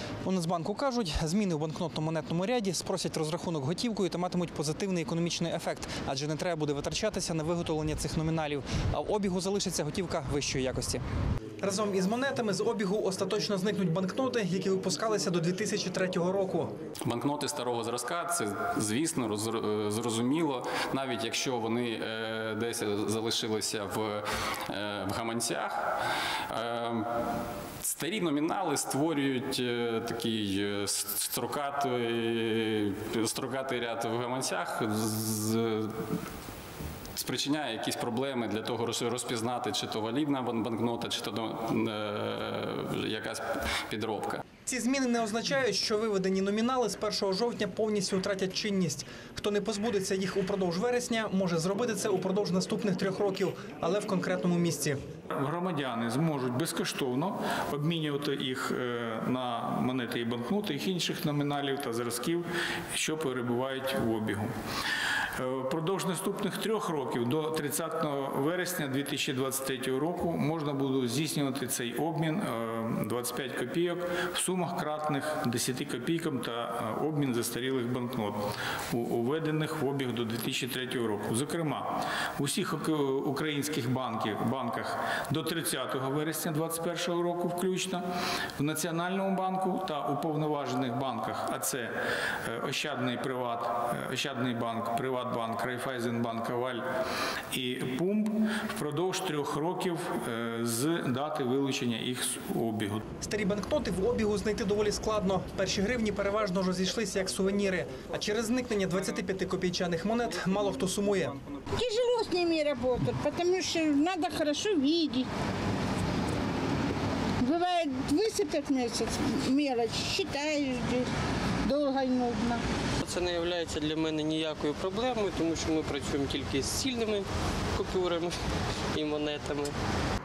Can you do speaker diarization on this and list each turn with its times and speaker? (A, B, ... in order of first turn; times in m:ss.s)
0:00.2-0:11.0 A
0:11.6-0:16.7 A
0:17.0-0:25.9 B
0:26.5-0:27.1 B
0:27.8-0:36.0 B
0:37.1-0:44.4 B
0:44.6-0:55.0 A
0:55.3-1:04.5 C
1:05.4-1:28.0 C
1:28.6-1:31.9 C
1:32.4-1:36.8 C
1:37.5-1:43.0 C
1:43.2-1:51.4 A
1:51.7-1:55.2 D
1:57.4-2:01.1 D
2:01.6-2:02.6 D
2:03.0-2:08.4 E
2:08.9-2:09.7 E